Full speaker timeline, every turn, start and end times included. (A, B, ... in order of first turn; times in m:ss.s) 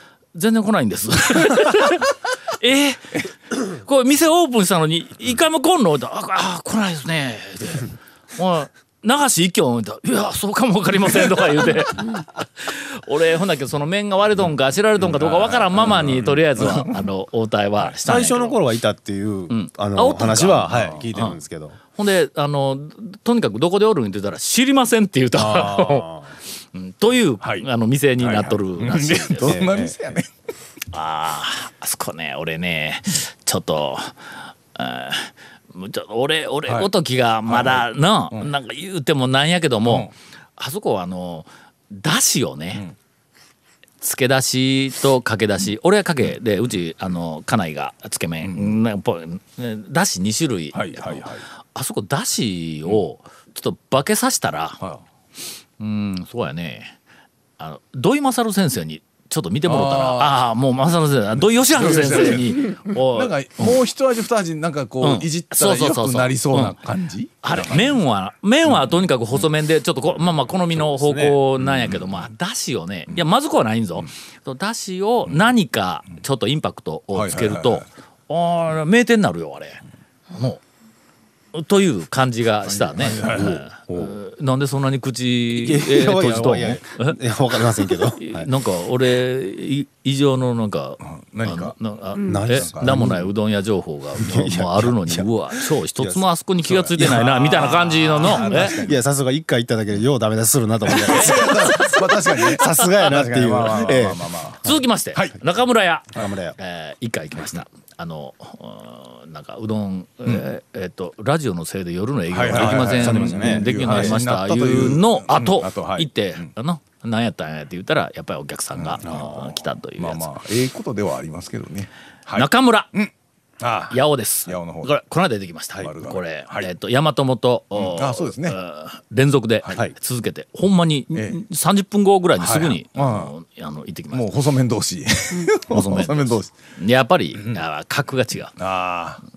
0:00.4-0:18.6 A
0:15.2-0:16.8 B
0:15.7-0:16.8 C
0:18.0-0:21.8 C
0:19.5-0:21.4 A
0:20.7-0:21.1 B
0:22.0-0:26.1 A
0:25.4-0:26.3 C
0:26.7-0:29.7 A
0:28.2-0:30.3 B
0:29.4-0:30.0 C
0:30.9-0:42.8 A
0:37.5-0:38.5 B
0:44.0-0:54.8 A
0:48.4-0:48.8 B
0:50.7-0:51.4 B
0:55.8-0:57.0 A
0:57.6-1:03.8 A
0:59.6-1:00.4 B
1:01.7-1:08.0 B
1:05.0-1:06.8 A
1:07.4-1:20.6 A
1:08.7-1:09.4 B
1:10.7-1:11.4 C
1:11.6-1:12.3 B
1:17.1-1:17.8 B
1:21.5-1:38.8 A
1:22.8-1:23.6 B
1:23.0-1:24.2 C
1:25.5-1:28.5 C
1:31.1-1:31.8 B
1:32.2-1:33.3 C
1:32.5-1:33.0 B
1:34.2-1:36.2 C
1:36.7-1:39.0 B
1:37.0-1:37.2 C
1:38.2-1:44.8 C
1:40.9-1:44.6 B
1:41.0-1:41.9 A
1:44.6-2:00.4 A
1:46.1-1:46.6 C
1:52.3-1:56.5 B
1:52.5-1:54.2 C
1:58.8-2:04.9 B
2:02.3-2:02.9 A
2:03.9-2:14.3 A
2:05.8-2:06.7 B
2:07.8-2:08.6 B
2:11.1-2:11.4 B
2:12.4-2:13.3 B
2:14.1-2:16.5 B
2:15.5-2:18.6 A
2:18.6-2:19.2 B